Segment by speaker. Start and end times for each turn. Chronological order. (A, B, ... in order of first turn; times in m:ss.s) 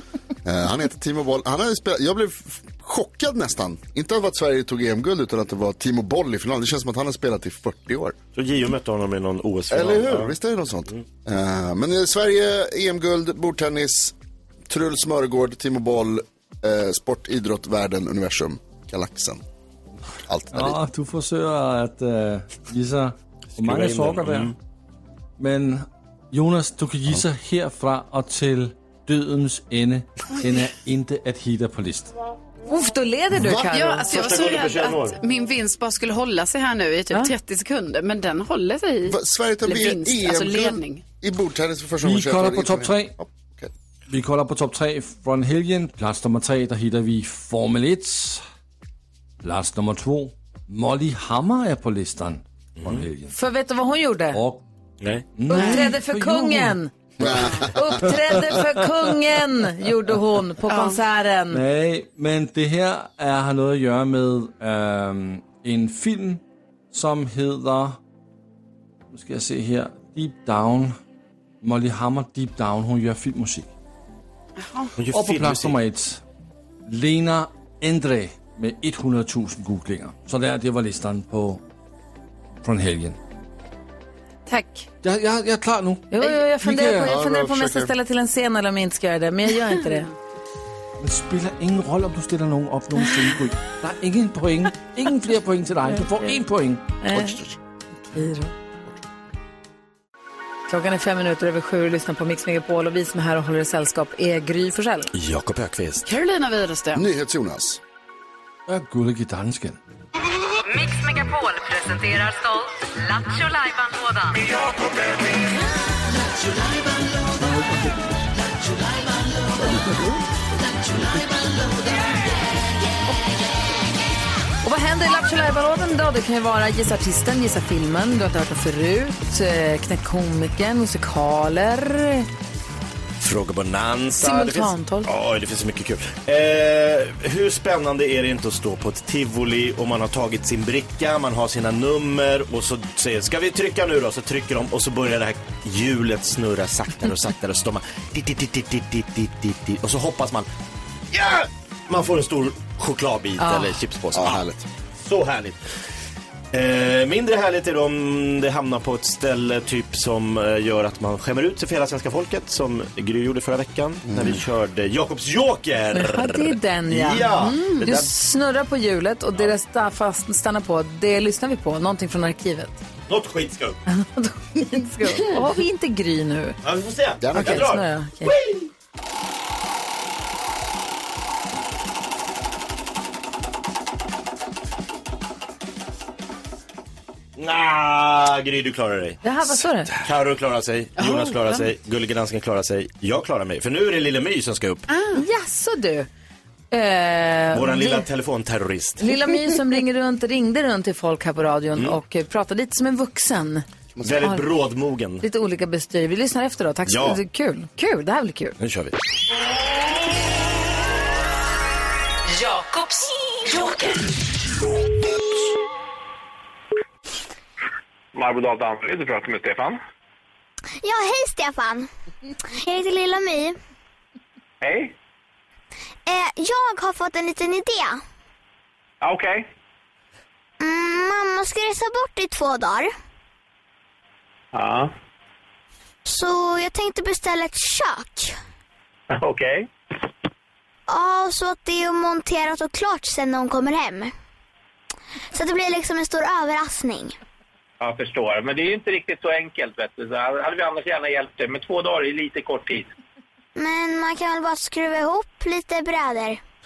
0:00.4-0:08.2 A
0:08.3-0:10.3 B
0:09.7-0:14.1 A
0:14.7-0:19.4 A
0:20.3-0:20.8 A
0:20.5-0:24.6 C
0:23.6-0:24.6 B
0:25.4-0:32.1 C
0:32.7-0:34.1 D
0:33.4-0:33.7 A
0:33.7-0:41.0 E
0:34.1-0:35.2 B
0:39.1-0:43.7 A
0:42.0-0:43.1 C
0:44.1-0:48.4 C
0:49.4-0:53.4 C
0:52.8-0:53.0 B
0:53.3-0:54.4 D
0:54.3-0:54.6 C
0:55.0-0:55.3 B
0:55.4-0:56.8 C
0:55.5-0:56.9 D
0:55.5-0:55.9 E
0:57.2-0:58.0 A
0:57.7-1:01.6 D
1:00.7-1:01.0 E
1:01.5-1:08.0 C
1:09.1-1:11.0 C
1:11.6-1:13.7 C
1:14.6-1:14.9 E
1:15.0-1:15.8 B
1:15.1-1:16.2 C
1:16.9-1:21.6 C
1:22.6-1:23.2 C
1:24.5-1:24.9 E
1:25.0-1:27.1 C
1:26.1-1:30.1 D
1:27.0-1:27.9 A
1:31.0-1:36.8 C
1:37.0-1:37.4 D
1:37.1-1:37.6 A
1:38.1-1:38.5 D
1:40.7-1:45.1 D
1:45.1-1:46.1 B
1:46.0-1:47.0 E
1:46.9-1:47.8 A
1:48.7-1:49.8 C
1:50.7-1:54.5 F
1:59.6-2:00.0 A
2:04.6-2:12.3 D
2:13.2-2:30.5 B
2:14.2-2:15.1 D
2:31.1-2:34.4 B
2:33.4-2:33.8 D
2:34.1-2:34.7 A
2:35.0-2:35.6 B
2:36.5-2:48.1 B
2:44.1-2:44.4 A
2:45.9-2:52.8 D
2:53.1-2:53.8 B
2:53.9-2:56.6 D
2:56.6-2:58.7 B
2:57.2-2:57.8 A
2:57.3-2:58.3 D
3:07.4-3:14.9 B
3:09.2-3:09.9 D
3:11.0-3:11.7 E
3:14.9-3:15.2 E
3:15.2-3:16.1 D
3:16.7-3:18.1 D
3:17.5-3:19.1 B
3:19.0-3:23.6 D
3:24.0-3:24.3 A
3:24.0-3:25.2 B
3:24.2-3:24.5 D
3:25.2-3:28.6 D
3:26.9-3:27.2 B
3:28.6-3:29.0 B
3:32.3-3:34.1 F
3:38.1-3:39.8 G
3:40.8-3:41.9 H
3:42.5-3:43.6 H
3:44.6-3:44.9 G
3:46.1-3:48.0 H
3:49.0-3:49.5 G
3:50.6-3:52.9 H
3:54.5-3:54.9 G
3:56.1-3:58.4 H
3:59.1-3:59.7 G
4:00.9-4:04.1 H
4:05.3-4:07.2 H
4:07.8-4:12.9 G
4:13.6-4:16.4 H